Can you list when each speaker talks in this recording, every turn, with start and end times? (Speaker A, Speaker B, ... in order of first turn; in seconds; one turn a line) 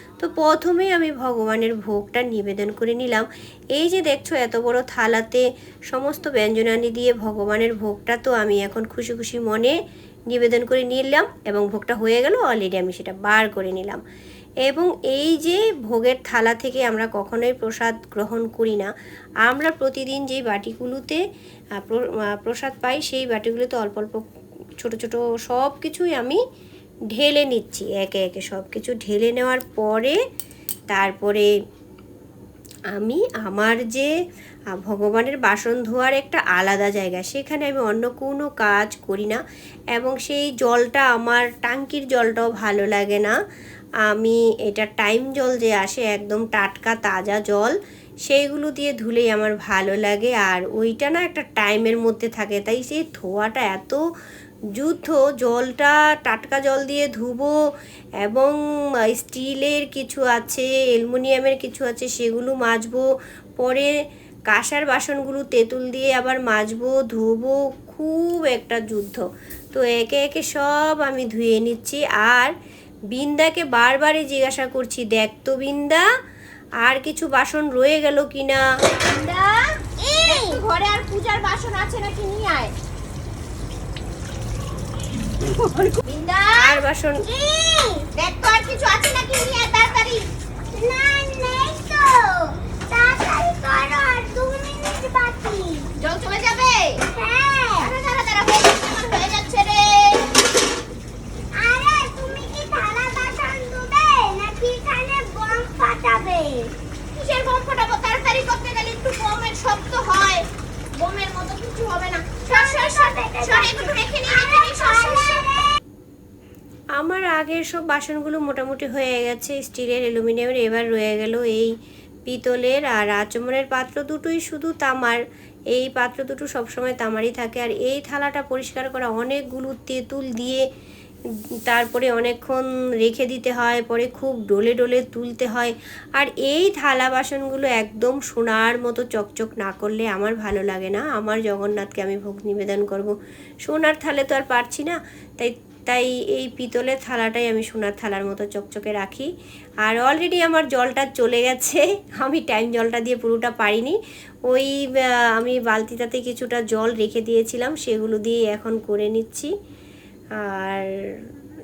Speaker A: 0.2-3.2
Speaker A: 3.8-9.7
Speaker A: 10.3-14.0
Speaker A: 14.6-18.9
Speaker A: 19.4-21.2
Speaker A: 21.8-24.2
Speaker A: 24.8-26.4
Speaker A: 27.1-30.2
Speaker A: 30.9-31.5
Speaker A: 32.9-34.1
Speaker A: 34.7-39.4
Speaker A: 39.9-43.3
Speaker A: 44.1-47.7
Speaker A: 48.3-54.0
Speaker A: 54.8-57.5
Speaker A: 58.2-58.5
Speaker A: 59.1-63.1
Speaker A: 63.6-63.9
Speaker A: 64.5-72.5
Speaker A: 73.1-76.0
Speaker A: 76.8-78.6
Speaker B: 79.0-82.7
Speaker C: 79.8-80.6
Speaker B: 85.5-86.8
Speaker A: 86.5-87.2
Speaker C: 87.2-88.1
Speaker B: 88.1-90.3
Speaker C: 90.7-95.9
Speaker B: 95.9-97.0
Speaker C: 97.0-97.9
Speaker B: 97.8-100.3
Speaker C: 101.5-106.7
Speaker B: 107.1-115.5
Speaker C: 112.5-115.7
Speaker A: 117.0-121.7
Speaker A: 122.3-125.2
Speaker A: 125.7-130.6
Speaker A: 131.7-143.1
Speaker A: 143.7-149.3
Speaker A: 149.8-154.0
Speaker A: 155.4-159.5
Speaker A: 160.4-161.3